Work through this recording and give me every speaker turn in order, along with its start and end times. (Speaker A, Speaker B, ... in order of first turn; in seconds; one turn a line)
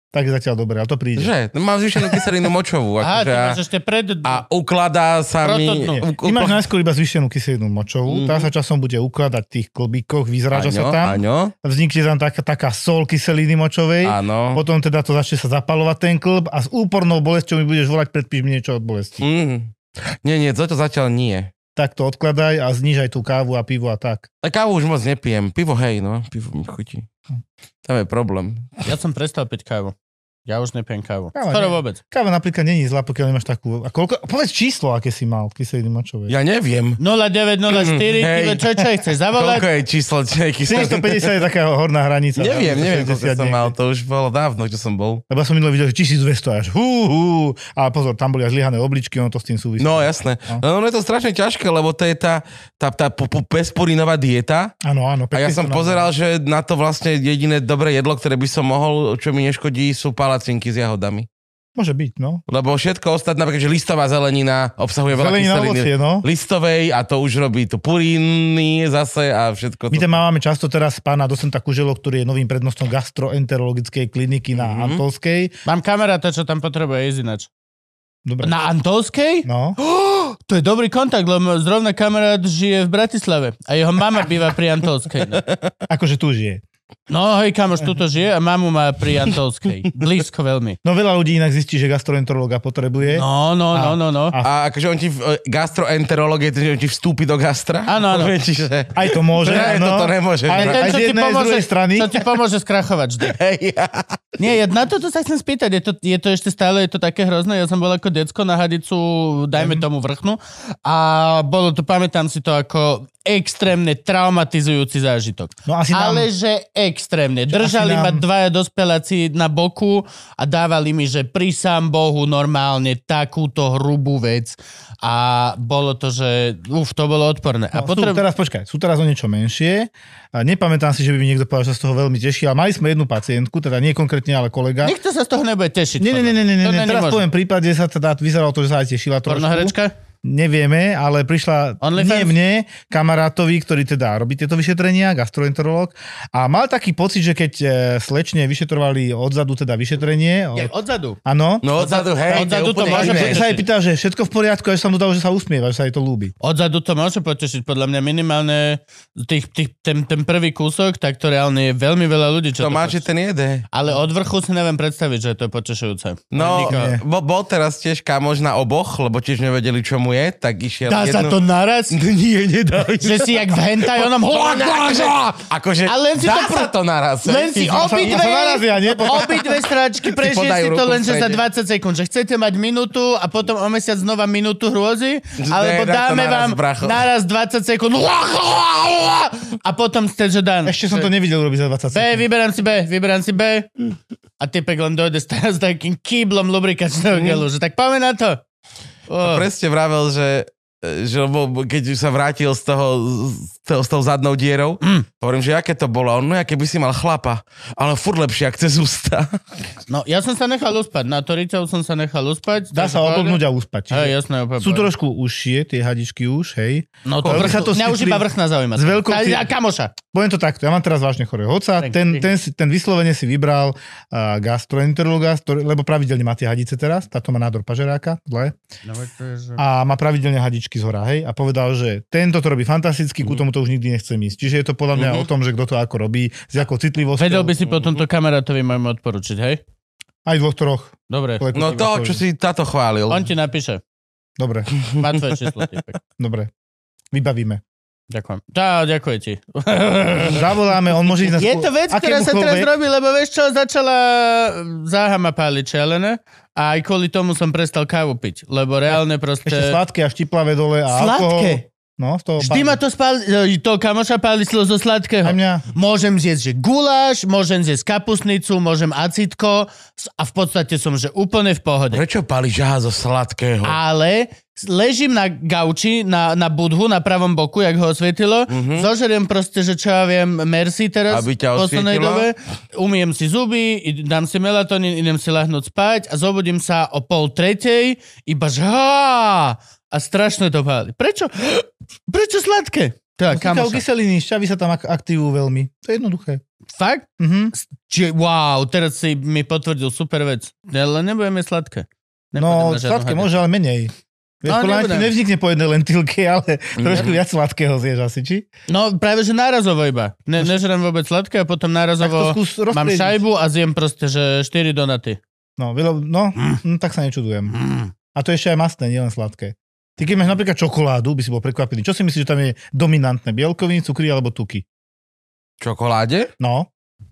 Speaker A: 0.1-1.3
Speaker B: 1.1-3.6
Speaker A: 2.0-2.2
Speaker C: 3.0-4.4
Speaker B: 4.2-6.6
Speaker C: 5.4-6.0
Speaker A: 6.0-19.2
Speaker B: 8.1-8.5
Speaker B: 10.5-11.5
Speaker B: 14.0-14.6
Speaker B: 19.2-21.5
Speaker A: 21.8-24.3
Speaker B: 24.4-27.1
Speaker B: 27.9-28.8
Speaker C: 28.9-29.9
Speaker C: 30.4-32.0
Speaker A: 31.4-36.4
Speaker B: 36.3-37.0
Speaker C: 37.0-39.6
Speaker B: 37.7-38.7
Speaker B: 39.3-41.3
Speaker A: 40.7-43.7
Speaker B: 42.4-45.2
Speaker A: 45.3-50.6
Speaker B: 49.8-54.7
Speaker A: 54.8-56.1
Speaker B: 55.3-61.3
Speaker A: 61.8-62.4
Speaker B: 62.5-70.2
Speaker A: 65.1-66.2
Speaker A: 69.9-75.5
Speaker B: 74.6-75.0
Speaker C: 75.7-77.5
Speaker A: 78.2-78.5
Speaker C: 78.4-85.4
Speaker A: 79.5-79.8
Speaker B: 85.4-85.7
Speaker A: 85.9-86.6
Speaker C: 87.1-90.8
Speaker A: 90.8-94.5
Speaker C: 93.1-94.4
Speaker B: 94.4-101.0
Speaker C: 97.9-98.3
Speaker A: 98.9-102.2
Speaker C: 99.5-99.7
Speaker C: 100.5-103.3
Speaker B: 103.2-104.2
Speaker C: 104.4-128.2
Speaker A: 109.6-109.8
Speaker A: 115.6-116.3
Speaker A: 117.5-118.2
Speaker A: 127.7-134.9
Speaker C: 134.8-137.2
Speaker A: 136.0-150.7
Speaker C: 139.3-139.9
Speaker C: 141.8-142.4
Speaker C: 150.6-151.2
Speaker A: 151.2-151.7
Speaker B: 151.6-153.6
Speaker C: 151.8-153.6
Speaker A: 152.3-156.3
Speaker C: 156.4-163.1
Speaker B: 162.6-163.7
Speaker C: 163.7-166.9
Speaker B: 166.3-171.4
Speaker A: 166.4-167.0
Speaker C: 170.9-172.0
Speaker B: 171.9-178.2
Speaker C: 173.0-175.2
Speaker C: 175.9-176.7
Speaker C: 177.2-191.1
Speaker A: 177.7-179.5
Speaker B: 180.0-181.4
Speaker B: 185.4-187.1
Speaker A: 190.7-192.2
Speaker C: 191.9-193.7
Speaker C: 194.4-198.4
Speaker C: 199.1-199.4
Speaker B: 199.2-209.4
Speaker C: 209.9-214.9
Speaker A: 212.7-218.2
Speaker C: 217.1-219.9
Speaker B: 217.2-217.6
Speaker A: 218.8-219.4
Speaker A: 220.1-228.6
Speaker C: 221.8-222.3
Speaker C: 228.8-229.6
Speaker A: 229.6-237.5
Speaker B: 234.9-235.3
Speaker C: 237.2-239.6
Speaker A: 240.3-242.2
Speaker C: 241.1-241.4
Speaker B: 241.5-243.3
Speaker C: 243.1-243.8
Speaker A: 244.4-244.7
Speaker C: 245.0-246.0
Speaker A: 246.2-246.5
Speaker A: 247.1-247.6
Speaker C: 248.1-250.4
Speaker A: 250.2-252.7
Speaker C: 251.2-259.8
Speaker A: 259.4-262.8
Speaker C: 260.9-261.6
Speaker C: 262.4-272.0
Speaker A: 265.2-265.6
Speaker B: 271.9-273.8
Speaker C: 273.6-293.8
Speaker B: 278.5-278.9
Speaker B: 281.1-282.3
Speaker A: 293.3-296.4
Speaker C: 296.7-303.3
Speaker A: 297.2-297.5
Speaker A: 302.4-308.4
Speaker C: 304.5-305.1
Speaker B: 306.8-307.2
Speaker C: 308.7-315.2
Speaker A: 312.0-313.2
Speaker A: 315.6-317.6
Speaker C: 317.5-317.9
Speaker A: 318.1-324.6
Speaker B: 325.6-326.3
Speaker A: 326.4-326.7